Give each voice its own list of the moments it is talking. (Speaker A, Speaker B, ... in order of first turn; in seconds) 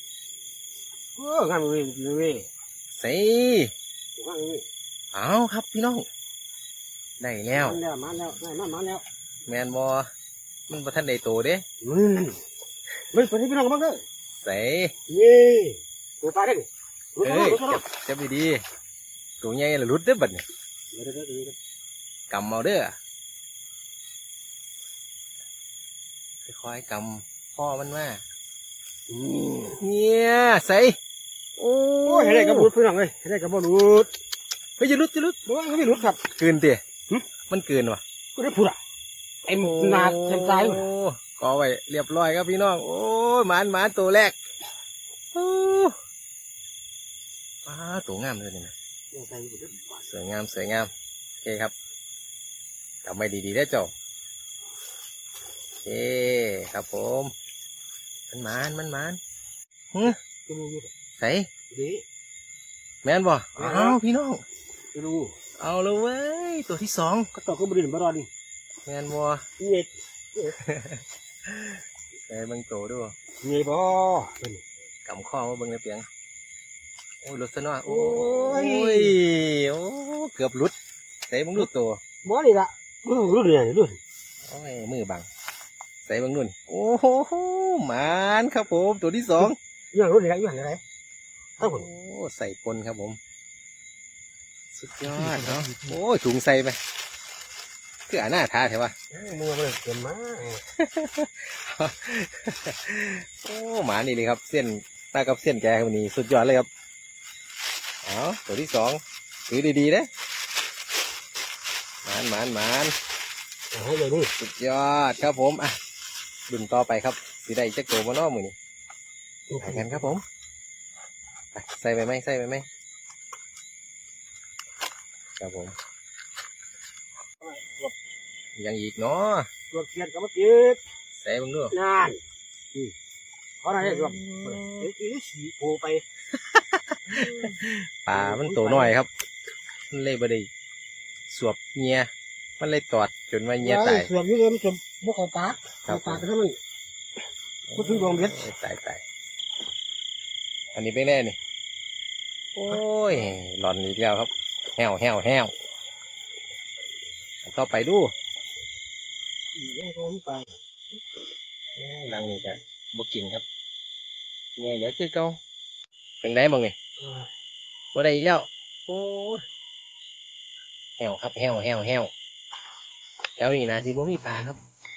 Speaker A: 1.1-2.5, 4.2-4.6, 7.5-9.0, 11.8-12.4, 13.1-14.0, 15.1-17.8, 20.9-21.5, 29.1-29.8, 32.0-34.1, 35.5-36.2, 38.4-38.8, 39.5-40.9, 49.1-50.0, 60.0-60.9, 61.7-62.0, 63.6-64.0, 64.9-65.3, 67.3-68.3, 69.6-70.6, 73.4-74.6, 77.8-79.2, 82.2-84.0, 89.4-90.8, 91.6-91.9, 95.1-95.9, 99.1-100.6, 113.7-114.3, 119.5-120.1, 127.4-127.9, 129.7-130.8, 131.7-132.2, 133.6-136.0, 137.1-137.6, 138.1-138.9, 143.6-146.6, 147.7-148.4, 159.5-160.5, 167.0-167.3
Speaker B: 2.9-3.7, 5.1-6.0, 7.2-7.8, 9.5-10.1, 10.7-11.6, 14.4-14.9, 17.2-18.6, 19.4-20.4, 22.3-22.9, 26.4-28.2, 29.7-30.9, 31.6-32.7, 34.8-35.4, 36.3-36.8, 37.5-38.0, 39.6-44.3, 45.3-45.9, 47.6-48.7, 50.0-50.9, 51.4-51.7, 53.0-53.9, 55.8-57.3, 58.3-59.2, 61.2-61.5, 63.0-64.4, 65.6-67.3, 68.8-69.4, 70.6-71.8, 72.3-73.1, 75.0-76.0, 77.2-80.7, 81.3-82.0, 84.5-85.2, 86.0-89.6, 91.6-93.2, 94.7-96.8, 98.1-98.9, 100.8-106.7, 108.0-110.1, 112.0-112.9, 114.4-115.8, 116.5-118.5, 119.6-120.2, 121.5-122.7, 125.4-125.7, 128.6-129.5, 131.1-131.7, 133.8-134.9, 136.5-139.1, 139.9-140.5, 141.3-144.1, 145.8-146.2, 147.7-149.0, 150.7-151.4, 152.5-155.5, 157.4-158.1, 161.8-163.4, 164.6-165.4, 166.2-166.7, 167.9-169.4, 171.0-172.1, 173.4-174.6